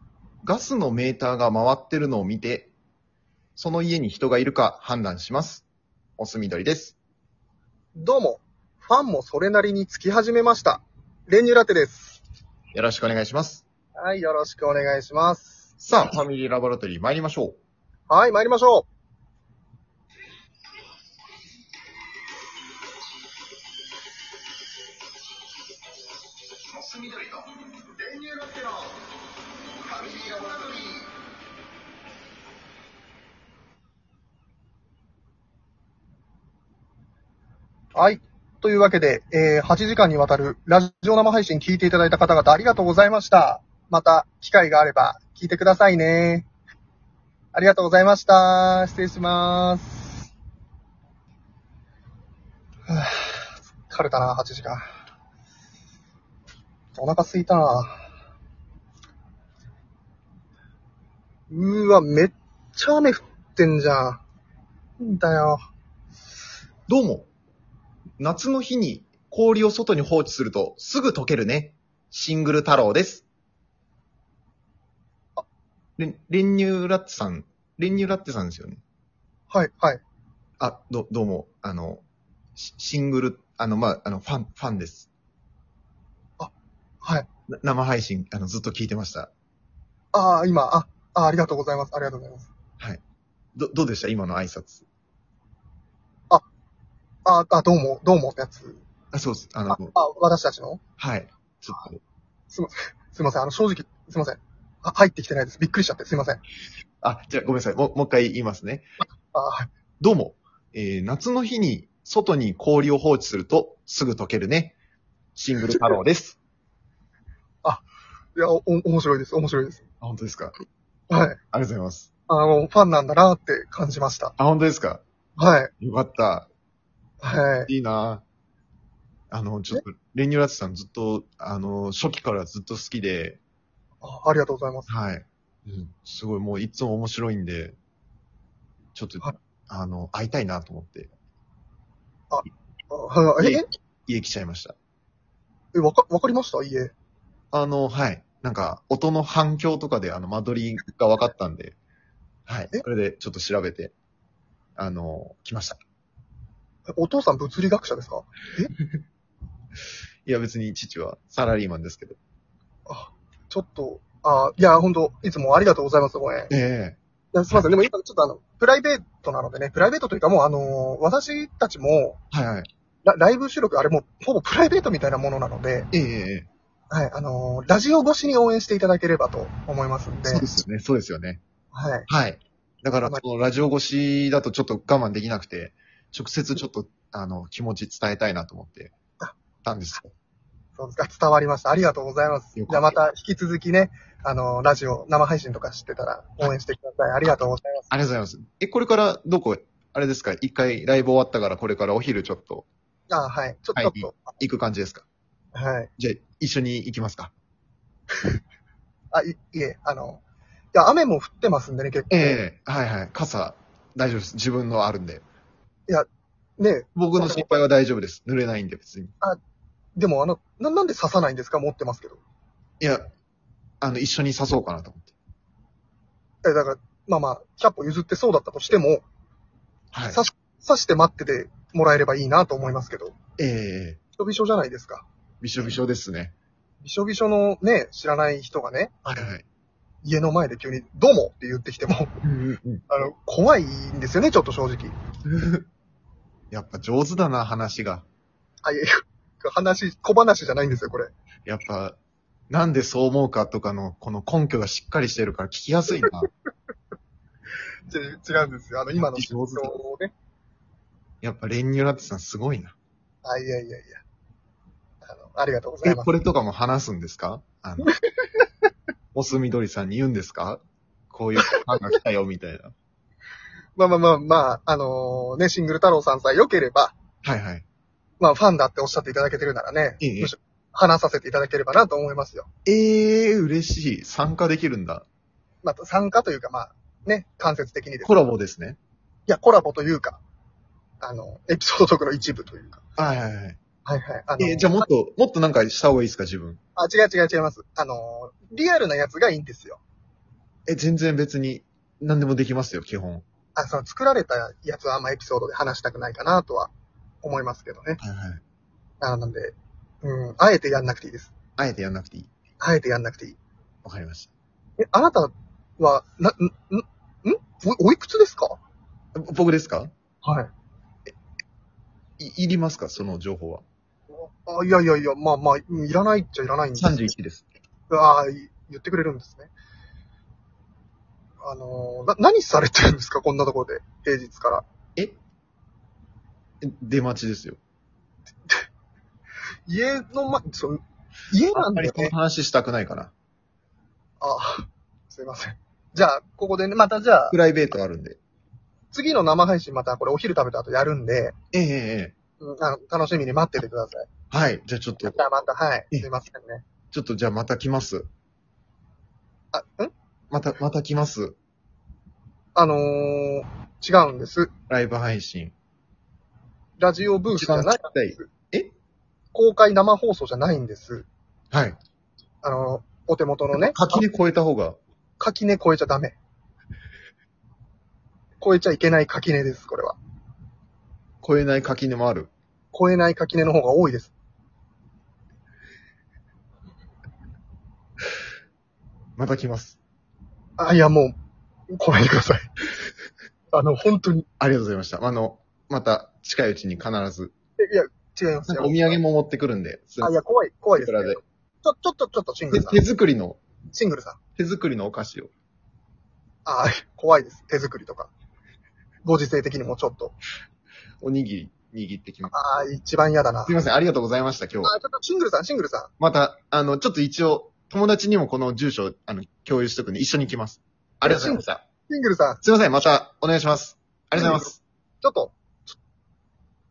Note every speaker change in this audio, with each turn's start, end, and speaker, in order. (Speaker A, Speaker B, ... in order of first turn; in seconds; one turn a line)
Speaker A: 0.4-2.7
Speaker A: 3.5-5.7
Speaker A: 6.2-7.0
Speaker B: 7.9-12.2
Speaker A: 12.7-13.7
Speaker B: 14.0-15.7
Speaker A: 15.8-17.6
Speaker B: 18.1-18.9
Speaker A: 26.8-27.3
Speaker B: 28.0-28.8
Speaker B: 29.9-31.0
Speaker B: 37.9-46.5
Speaker B: 47.5-50.2
Speaker B: 52.9-54.9
Speaker B: 56.9-58.0
Speaker B: 61.5-64.2
Speaker B: 65.0-65.6
Speaker A: 66.9-67.3
Speaker A: 68.2-73.2
Speaker A: 76.0-78.8
Speaker B: 79.5-80.0
Speaker A: 80.6-82.0
Speaker A: 82.5-85.1
Speaker B: 86.4-87.3
Speaker A: 87.5-89.3
Speaker B: 90.1-92.5
Speaker A: 93.5-94.8
Speaker B: 97.2-98.8
Speaker A: 99.1-99.9
Speaker B: 99.7-100.8
Speaker A: 101.0-102.0
Speaker B: 102.5-106.4
Speaker A: 107.0-108.9
Speaker B: 109.3-109.7
Speaker A: 110.0-114.8
Speaker A: 115.3-116.4
Speaker B: 118.3-119.8
Speaker A: 120.0-120.5
Speaker B: 121.1-121.4
Speaker A: 121.5-122.1
Speaker B: 122.3-124.3
Speaker A: 124.4-125.0
Speaker B: 125.4-125.7
Speaker A: 125.8-126.5
Speaker B: 127.2-127.7
Speaker A: 127.7-128.2
Speaker A: 129.3-133.4
Speaker B: 134.0-134.9
Speaker A: 134.9-137.8
Speaker A: 138.9-141.1
Speaker B: 142.3-143.6
Speaker A: 143.4-144.8
Speaker B: 145.7-146.9
Speaker A: 147.5-151.8
Speaker A: 152.5-153.9
Speaker A: 154.8-155.8
Speaker B: 156.9-158.7
Speaker A: 160.2-162.2
Speaker B: 162.9-166.5
Speaker A: 166.5-167.0
Speaker B: 167.3-172.2
Speaker A: 172.3-172.7
Speaker B: 173.0-175.9
Speaker A: 175.9-176.5
Speaker B: 176.9-180.5
Speaker A: 180.3-181.4
Speaker B: 181.7-182.1
Speaker A: 182.1-188.9
Speaker A: 189.6-190.1
Speaker B: 190.8-197.9
Speaker A: 192.5-193.0
Speaker A: 197.9-202.7
Speaker B: 203.1-204.4
Speaker A: 203.8-205.1
Speaker B: 205.5-205.9
Speaker A: 206.0-207.3
Speaker B: 209.1-210.2
Speaker B: 210.7-212.4
Speaker A: 212.1-215.2
Speaker B: 216.6-217.5
Speaker A: 216.9-219.1
Speaker B: 219.9-222.2
Speaker A: 222.8-223.1
Speaker A: 223.8-225.1
Speaker B: 226.4-229.0
Speaker A: 229.9-230.2
Speaker B: 230.1-233.2
Speaker A: 233.4-234.0
Speaker B: 234.2-235.1
Speaker A: 235.4-236.3
Speaker B: 236.8-239.3
Speaker A: 239.1-239.4
Speaker B: 240.0-242.2
Speaker A: 242.2-242.8
Speaker B: 242.9-244.9
Speaker A: 245.2-245.6
Speaker A: 246.5-248.1
Speaker B: 248.6-251.1
Speaker A: 251.4-252.0
Speaker A: 252.5-256.3
Speaker B: 257.9-260.1
Speaker A: 259.1-259.8
Speaker A: 261.2-262.8
Speaker B: 263.2-264.0
Speaker B: 265.0-266.1
Speaker A: 265.8-267.9
Speaker A: 269.1-272.7
Speaker B: 273.8-276.9
Speaker A: 277.2-277.6
Speaker B: 278.2-282.5
Speaker A: 280.0-280.3
Speaker A: 282.6-285.1
Speaker B: 285.6-288.2
Speaker A: 288.0-288.8
Speaker B: 289.3-290.2
Speaker B: 291.0-292.9
Speaker A: 293.0-293.6
Speaker B: 293.8-294.9
Speaker A: 294.4-296.6
Speaker B: 296.8-299.8
Speaker A: 300.7-303.2
Speaker B: 303.6-306.7
Speaker B: 307.2-308.0
Speaker A: 308.0-308.4
Speaker B: 309.0-311.3
Speaker A: 311.6-312.3
Speaker B: 312.6-313.4
Speaker A: 313.8-314.3
Speaker B: 314.8-318.6
Speaker A: 319.1-319.9
Speaker B: 320.2-320.5
Speaker A: 322.2-323.6
Speaker B: 324.1-327.1
Speaker A: 326.8-327.4
Speaker B: 327.9-329.5
Speaker B: 331.4-334.6
Speaker A: 336.6-337.6
Speaker B: 339.7-342.1
Speaker A: 341.5-343.1
Speaker B: 344.2-347.4
Speaker A: 347.3-348.2
Speaker B: 348.9-351.4
Speaker A: 351.5-352.1
Speaker B: 352.4-354.1
Speaker A: 354.3-355.2
Speaker B: 355.0-356.6
Speaker A: 356.9-358.1
Speaker B: 359.5-359.9
Speaker A: 360.3-361.4
Speaker B: 362.5-364.5
Speaker A: 364.7-365.5
Speaker B: 366.8-368.3
Speaker A: 367.4-368.7
Speaker B: 369.3-371.1
Speaker A: 371.5-371.8
Speaker B: 372.4-374.0
Speaker A: 373.5-374.8
Speaker B: 375.2-376.1
Speaker B: 378.4-380.0
Speaker A: 381.2-382.3
Speaker B: 382.7-384.1
Speaker A: 389.2-389.8
Speaker B: 390.6-391.1
Speaker B: 391.7-392.5
Speaker B: 393.5-394.2
Speaker A: 394.4-397.3
Speaker B: 397.6-399.0
Speaker A: 398.5-400.1
Speaker B: 400.0-402.8
Speaker A: 400.8-401.2
Speaker A: 402.5-403.4
Speaker B: 403.7-404.2
Speaker A: 404.4-405.3
Speaker B: 406.4-408.1
Speaker B: 409.0-410.1
Speaker A: 411.0-412.3
Speaker B: 412.3-413.6
Speaker A: 413.4-414.7
Speaker B: 414.6-415.9
Speaker A: 416.0-421.6
Speaker B: 421.0-422.4
Speaker A: 422.4-424.6
Speaker B: 424.1-425.8